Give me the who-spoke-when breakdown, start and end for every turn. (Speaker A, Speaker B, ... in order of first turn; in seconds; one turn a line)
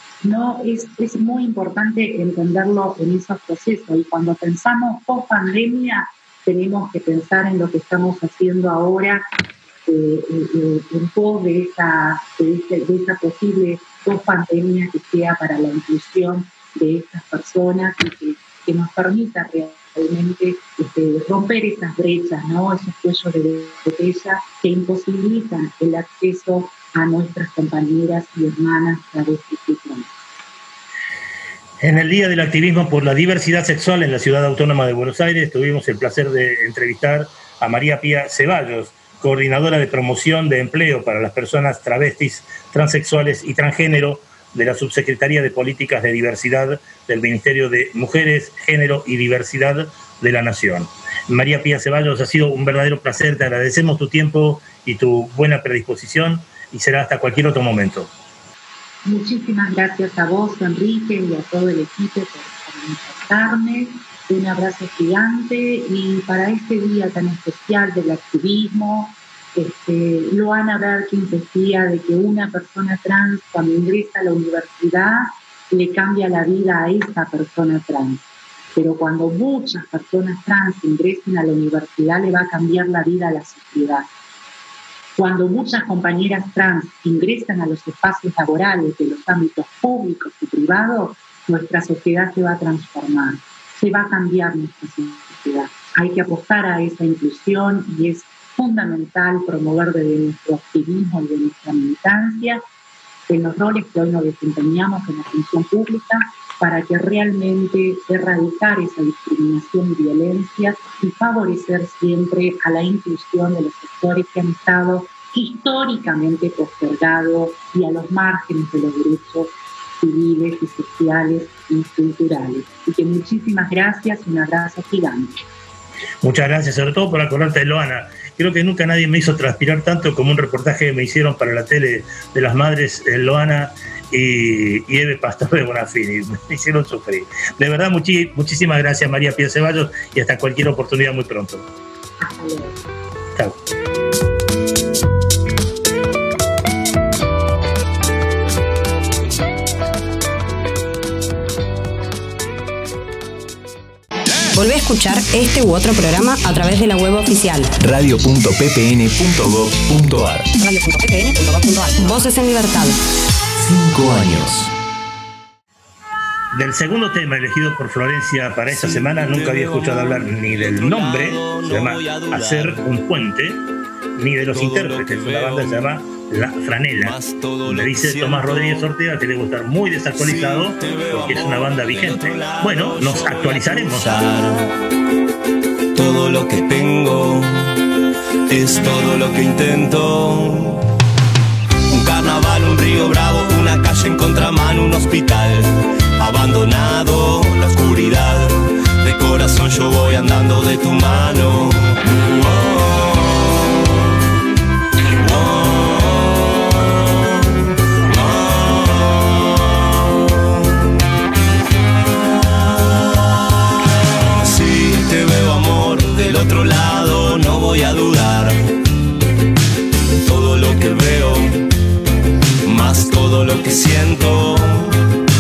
Speaker A: 0.2-9.2
Speaker A: 9.9-30.2
Speaker B: 31.8-58.1
Speaker A: 59.0-84.1
Speaker A: 85.2-102.6
Speaker A: 103.3-125.4
Speaker B: 126.2-141.6
Speaker A: 142.2-142.8
Speaker C: 154.5-157.7
Speaker D: 157.8-160.5
Speaker C: 160.6-163.0
Speaker D: 163.6-164.7
Speaker B: 166.5-173.6
Speaker E: 168.7-172.8
Speaker B: 174.2-184.2
Speaker E: 174.5-175.8
Speaker E: 176.9-178.9
Speaker E: 180.2-184.8
Speaker E: 185.9-187.7
Speaker E: 188.5-190.8
Speaker E: 191.9-204.0
Speaker E: 205.2-207.3
Speaker E: 208.0-210.4
Speaker E: 214.2-218.6
Speaker E: 220.2-221.7
Speaker E: 222.6-225.0